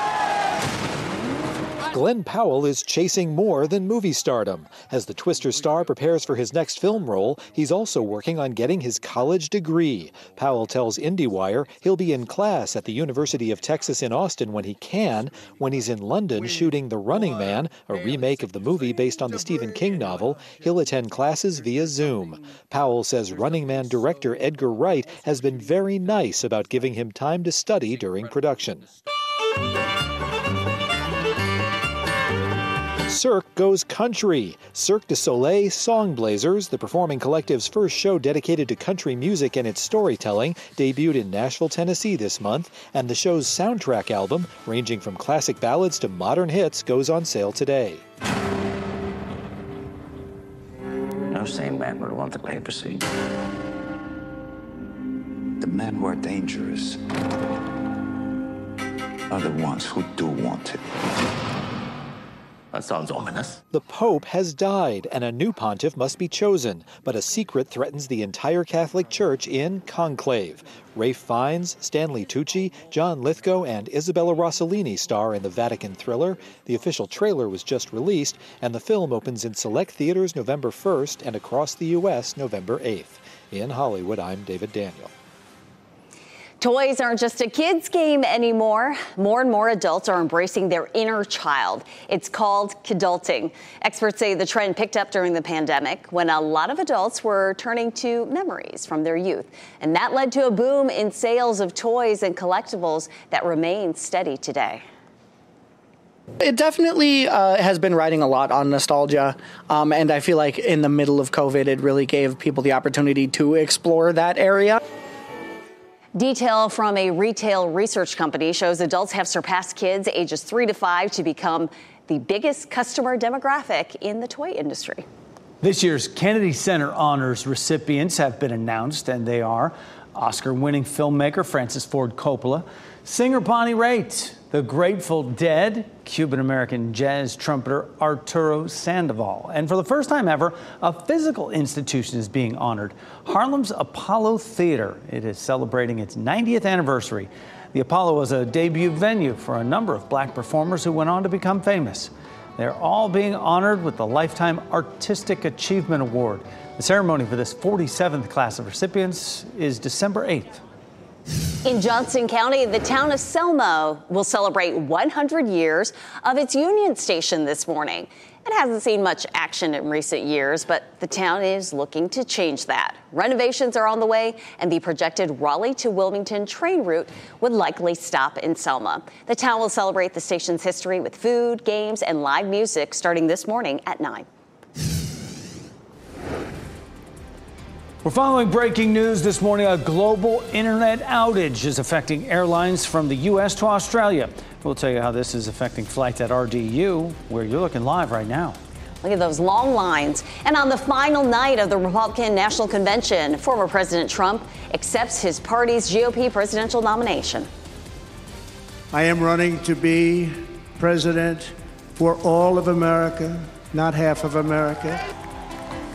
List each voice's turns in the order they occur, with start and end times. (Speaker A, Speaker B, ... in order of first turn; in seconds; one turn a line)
Speaker A: 1.9-28.9
Speaker A: 33.0-48.0
Speaker B: 51.3-53.0
Speaker B: 55.6-57.0
Speaker B: 59.3-60.8
Speaker B: 62.7-63.6
Speaker A: 63.7-85.1
Speaker C: 86.6-104.8
Speaker D: 106.4-114.8
Speaker C: 116.2-125.0
Speaker E: 125.6-160.6
Speaker C: 161.6-184.3
Speaker E: 188.0-198.6
Speaker C: 199.0-207.5
Speaker F: 208.9-215.0